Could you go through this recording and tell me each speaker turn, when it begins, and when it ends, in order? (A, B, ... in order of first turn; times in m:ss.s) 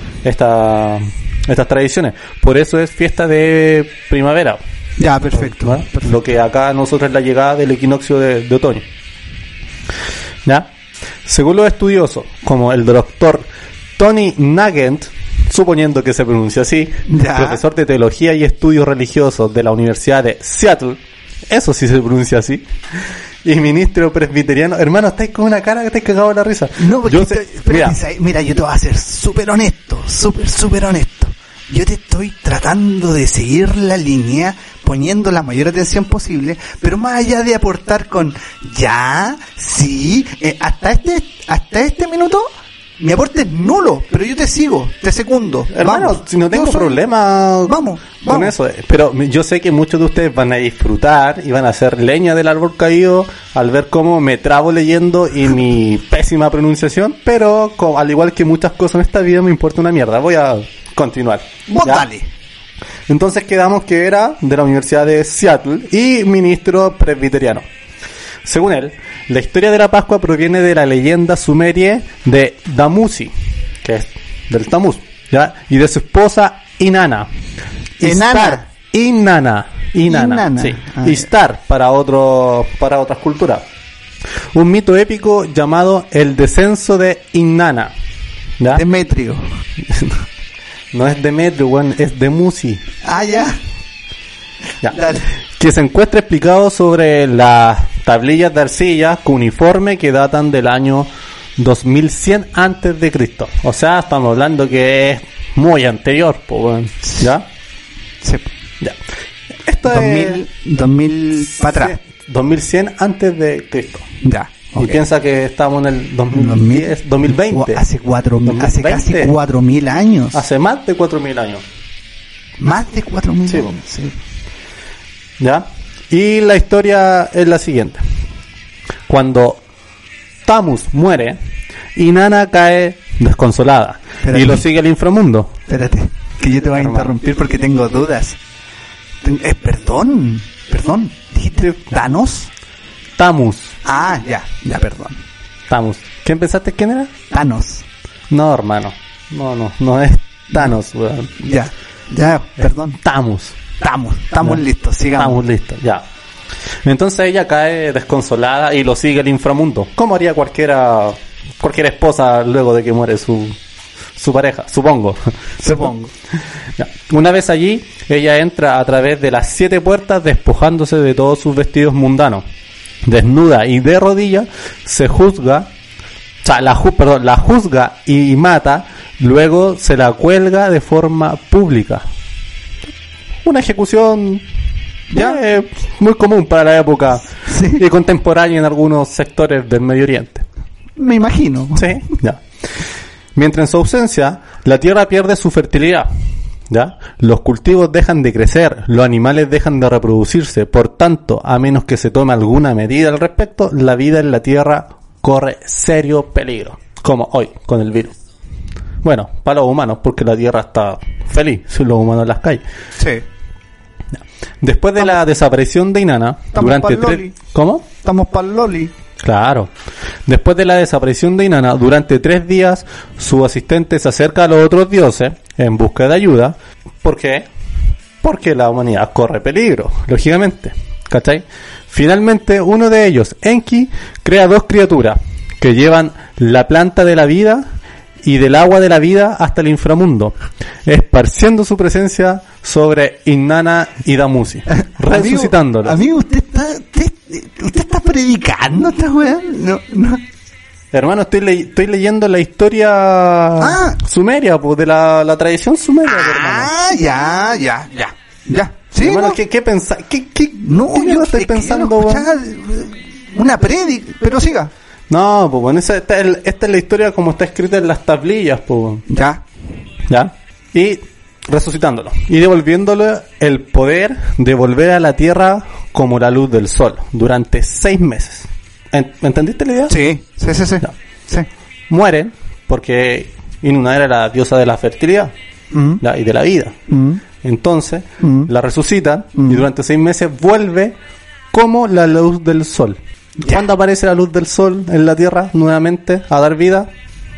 0:00.2-0:04.6 A
0:05.0-0:06.1 B
0:05.4-0:08.9 A
0:10.4-0:10.7 A
0:11.2-0:28.0 A
0:17.1-0:17.6 B
0:26.8-0:42.5 B
0:43.0-0:47.0 B
0:45.7-1:02.0 A
0:47.6-0:48.5 B
1:01.7-1:02.3 B
1:03.1-1:07.6 A
1:08.4-1:17.3 A
1:18.0-1:23.6 A
1:18.0-1:18.7 B
1:20.1-1:21.3 B
1:24.5-1:27.9 A
1:28.6-1:28.8 A
1:28.7-1:29.4 B
1:29.9-1:30.2 A
1:30.9-1:32.8 A
1:33.0-1:33.6 B
1:34.9-1:35.2 B
1:35.6-1:47.4 A
1:47.0-1:47.3 B
1:48.2-1:48.5 B
1:49.6-1:50.4 A
1:49.8-1:52.0 B
1:51.8-1:54.0 A
1:54.2-1:55.0 B
1:54.8-1:57.8 A
1:56.3-2:00.4 B
1:58.4-1:59.3 A
2:00.3-2:01.6 A
2:02.6-2:04.2 B
2:03.5-2:03.7 A
2:05.4-2:08.0 A
2:09.1-2:09.6 A
2:10.4-2:11.4 A
2:12.0-2:15.5 A
2:14.2-2:14.6 B
2:15.7-2:18.4 B
2:16.8-2:17.1 A
2:19.2-2:22.5 B
2:23.2-2:23.8 A
2:23.8-2:25.2 B
2:25.7-2:27.1 A
2:27.3-2:27.8 B
2:28.3-2:31.4 A
2:31.4-2:33.0 B
2:33.0-2:33.6 A
2:33.8-2:35.4 B
2:35.2-2:36.0 A
2:36.8-2:43.6 A
2:44.2-2:45.8 A
2:45.6-2:46.1 B
2:46.8-2:52.4 A
2:53.0-2:55.7 A
2:56.4-3:02.0 A
3:03.4-3:04.4 A
3:05.1-3:05.4 B
3:05.1-3:10.4 A
3:07.4-3:07.8 B
3:11.0-3:12.1 B
3:11.8-3:12.4 A
3:13.3-3:16.1 A
3:16.7-3:28.1 A
3:29.0-3:32.6 A
3:33.0-3:33.2 B
3:34.6-3:37.8 A
3:36.5-3:37.3 B
3:38.0-3:38.9 B
3:39.2-3:39.7 A
3:40.2-3:47.5 A
3:48.2-3:57.6 A
3:58.2-4:06.0 A
4:04.7-4:10.2 B
4:10.9-4:16.7 A
4:13.6-4:14.0 B
4:16.1-4:19.4 B
4:19.0-4:22.2 A
4:20.6-4:24.7 B
4:25.1-4:29.0 A
4:29.1-4:29.4 B
4:30.1-4:39.9 A
4:39.9-4:41.5 B
4:41.9-4:45.3 A
4:45.7-4:46.0 B
4:46.0-4:46.7 A
4:46.9-4:47.2 B
4:47.4-4:50.9 A
4:48.2-4:48.5 B
4:49.3-4:49.6 B
4:51.5-4:56.9 A
4:53.4-4:53.7 B